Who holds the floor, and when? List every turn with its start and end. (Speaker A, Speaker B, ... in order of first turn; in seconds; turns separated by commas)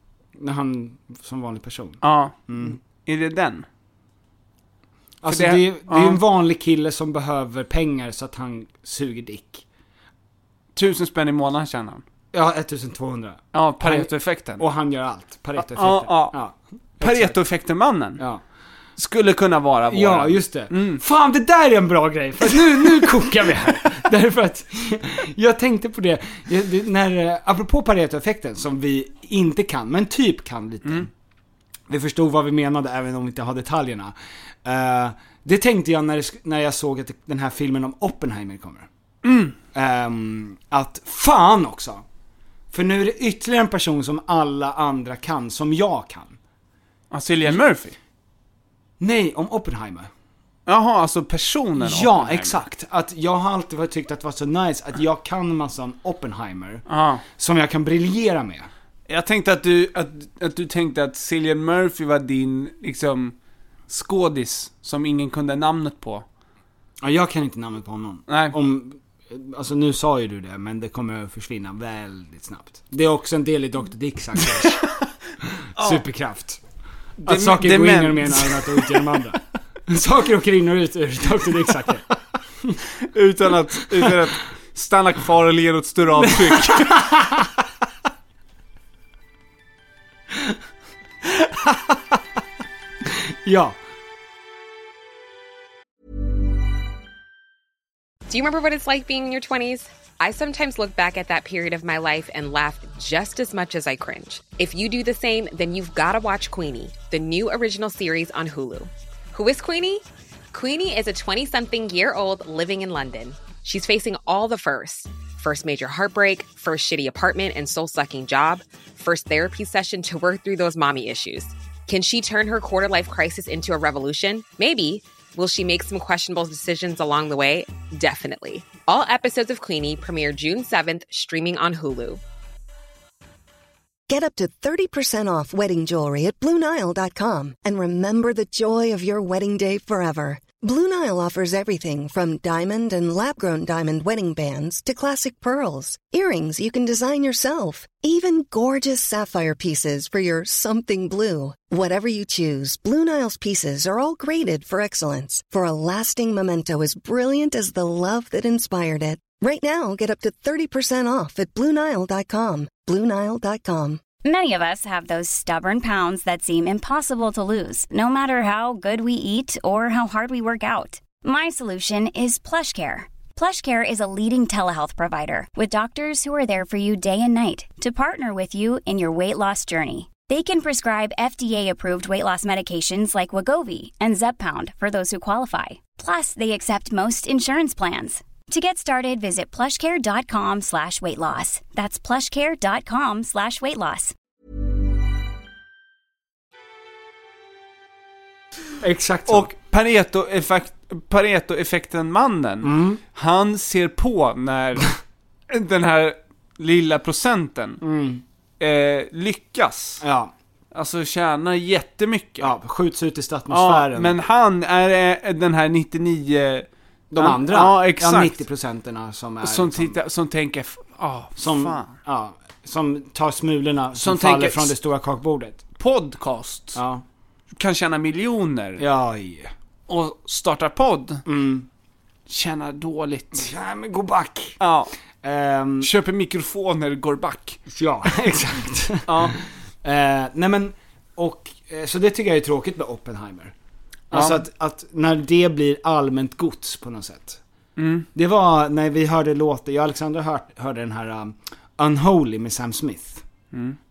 Speaker A: 0.4-2.8, Speaker B: 2.0-3.6, Speaker A: 5.2-9.6, Speaker B: 5.3-6.2, Speaker B: 10.7-12.0, Speaker A: 12.3-17.4, Speaker B: 13.5-14.6, Speaker B: 15.6-16.4, Speaker B: 17.0-18.2, Speaker B: 19.0-21.0, Speaker A: 19.9-31.1, Speaker A: 31.9-38.9, Speaker B: 39.2-39.5, Speaker A: 39.7-42.0, Speaker A: 42.7-46.4, Speaker B: 47.1-48.0, Speaker A: 49.0-50.1, Speaker B: 50.7-52.6, Speaker A: 51.8-56.8, Speaker B: 56.9-57.2, Speaker A: 57.4-58.7, Speaker B: 59.1-63.3, Speaker B: 63.9-66.2, Speaker A: 67.0-74.8, Speaker B: 68.3-68.5, Speaker A: 75.8-76.6, Speaker B: 75.8-76.0, Speaker A: 77.2-82.0, Speaker B: 77.2-79.2, Speaker B: 83.1-87.0, Speaker A: 86.2-87.4, Speaker A: 91.2-91.9, Speaker A: 93.4-93.8, Speaker C: 98.3-132.2, Speaker D: 134.1-164.1, Speaker E: 164.2-194.1, Speaker A: 198.8-199.5, Speaker B: 199.3-204.9, Speaker A: 202.6-203.0, Speaker B: 205.5-207.8, Speaker A: 207.8-208.2, Speaker B: 208.6-210.0, Speaker A: 210.0-210.3, Speaker B: 210.7-212.5, Speaker A: 212.4-214.1, Speaker B: 213.5-218.4, Speaker A: 217.1-219.9, Speaker B: 219.4-221.9, Speaker A: 221.4-225.6, Speaker B: 223.9-224.7, Speaker B: 225.8-226.8, Speaker A: 226.8-227.0, Speaker B: 227.6-228.8, Speaker A: 228.8-229.5, Speaker B: 229.9-231.2, Speaker A: 231.3-231.7, Speaker B: 232.3-233.5, Speaker A: 233.3-234.6, Speaker B: 234.6-234.9, Speaker A: 235.2-235.9, Speaker B: 235.8-237.6, Speaker A: 237.7-243.5, Speaker B: 239.1-239.3, Speaker A: 244.1-247.4, Speaker B: 244.1-244.4, Speaker B: 247.8-248.1, Speaker A: 248.1-253.2, Speaker B: 253.5-253.8